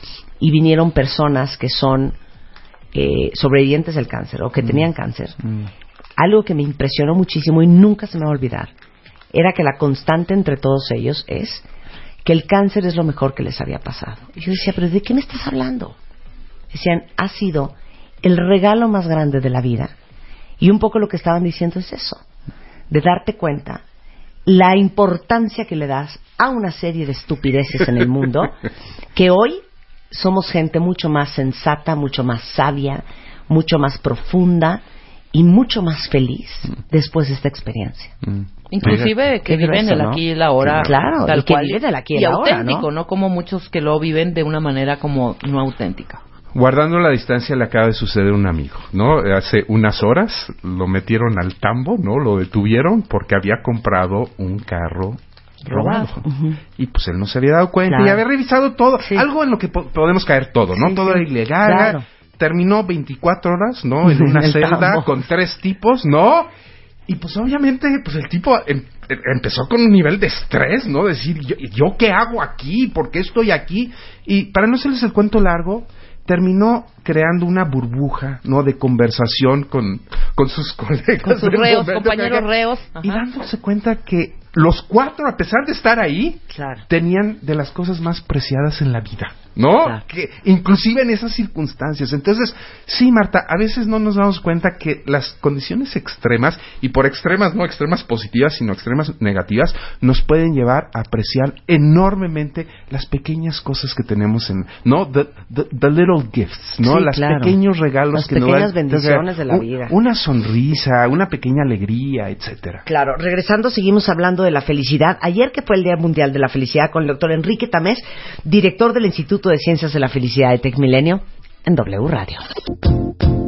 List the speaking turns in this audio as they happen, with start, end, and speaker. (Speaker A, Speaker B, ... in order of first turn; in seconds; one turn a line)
Speaker A: 0.4-2.2
Speaker A: 2.9-5.4
Speaker A: 6.2-8.7
Speaker A: 9.3-11.6
Speaker A: 12.2-16.0
Speaker A: 16.7-19.9
Speaker A: 20.6-22.2
Speaker A: 22.9-23.8
Speaker A: 24.4-28.6
Speaker A: 29.1-38.1
Speaker B: 38.2-39.1
Speaker C: 38.7-46.2
Speaker A: 38.8-40.2
Speaker A: 40.7-42.9
Speaker B: 46.5-66.5
Speaker A: 55.6-56.6
Speaker A: 57.9-58.2
Speaker A: 59.0-59.3
Speaker A: 60.7-62.0
Speaker A: 64.0-65.1
Speaker B: 67.1-82.4
Speaker C: 81.2-83.2
Speaker B: 83.0-112.8
Speaker A: 86.5-86.8
Speaker A: 106.8-107.6
Speaker A: 108.1-109.9
Speaker A: 112.8-122.4